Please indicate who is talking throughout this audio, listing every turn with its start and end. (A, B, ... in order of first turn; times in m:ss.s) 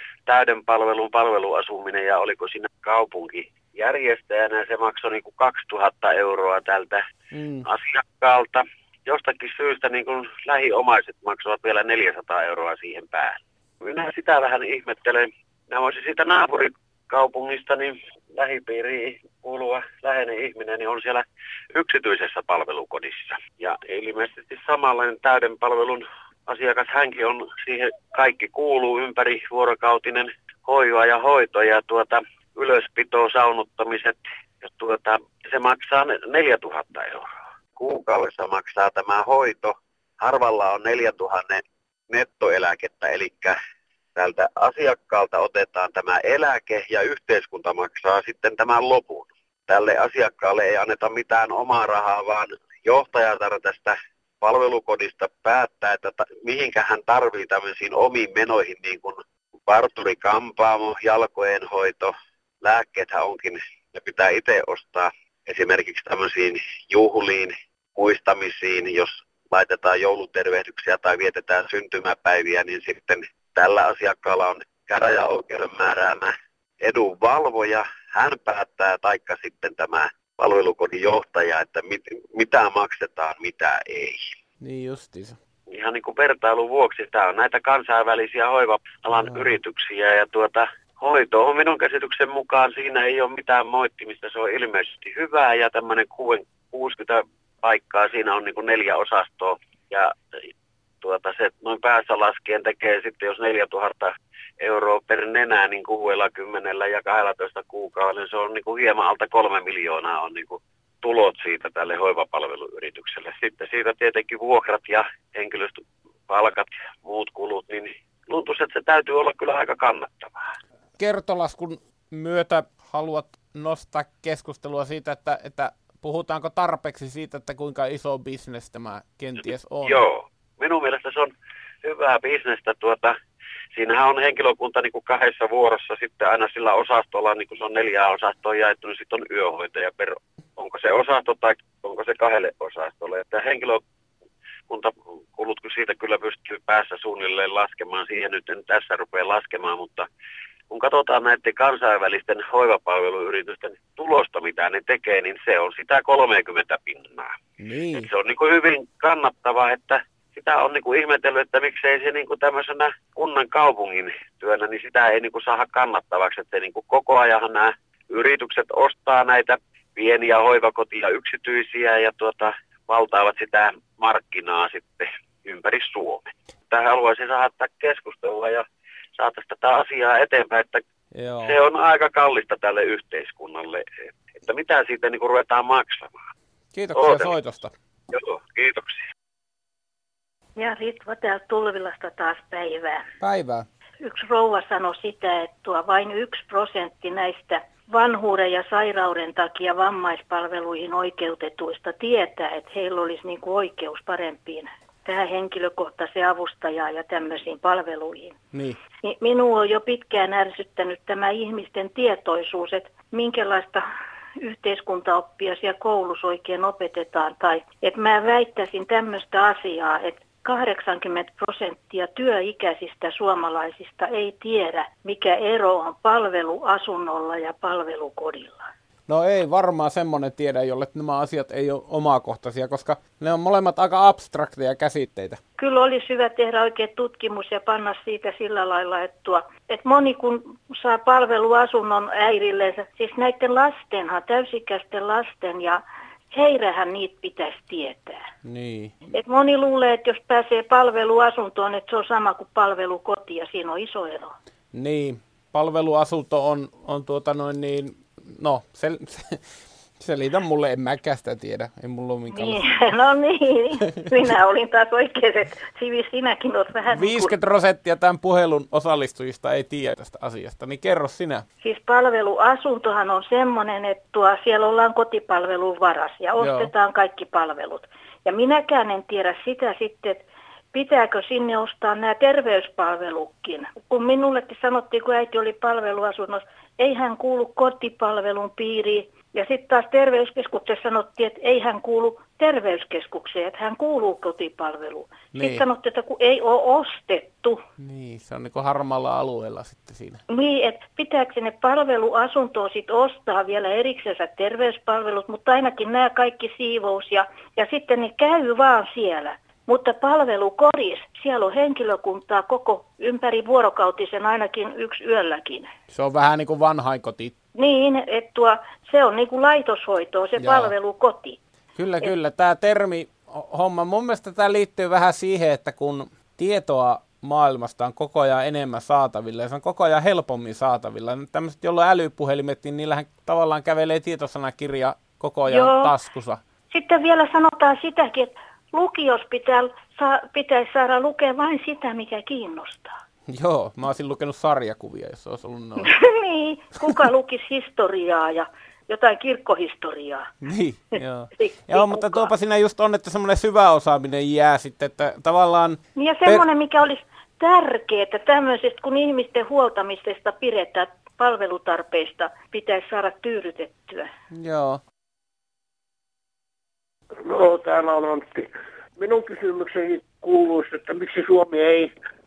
0:00.3-0:07.0 A
0:07.3-0:07.6 B
0:07.6-0:43.6 A
0:44.2-1:24.3 A
1:24.6-1:25.4 B
1:25.7-1:40.1 A
1:29.1-1:29.5 B
1:41.0-2:00.5 A
2:01.0-2:10.0 B
2:09.8-2:11.3 A
2:11.8-2:13.1 A
2:13.7-2:23.8 A
2:24.7-2:30.1 A
2:30.7-2:37.3 A
2:37.6-2:38.1 B
2:37.9-2:58.6 A
2:59.2-3:00.8 A
3:01.1-3:01.6 B
3:01.4-3:06.2 A
3:06.7-3:07.7 B
3:06.9-3:07.3 A
3:08.1-3:09.0 A
3:10.6-3:13.0 C
3:13.2-3:13.6 B
3:14.0-3:28.4 C
3:28.5-3:28.8 B
3:29.0-3:33.8 C
3:34.4-3:48.6 C
3:49.1-3:55.4 B
3:55.6-4:08.2 C
4:08.4-4:08.9 B
4:09.1-4:14.3 C
4:14.7-4:19.4 B
4:20.0-4:22.6 B
4:22.3-4:27.3 C
4:26.9-4:31.4 B
4:31.6-4:57.6 C
4:36.4-4:36.7 B
4:55.3-4:55.6 B
4:57.8-5:00.2 B
5:00.3-5:15.7 C
5:15.9-5:17.3 B
5:17.5-5:21.4 C
5:20.4-5:20.7 B
5:21.8-5:36.4 B
5:35.5-5:35.9 C
5:36.7-5:43.0 C
5:43.3-5:45.9 B
5:45.8-5:50.3 C
5:50.4-5:56.4 B
5:51.0-5:52.3 C
5:56.0-6:04.1 C
6:04.3-6:04.8 B
6:07.2-6:11.9 D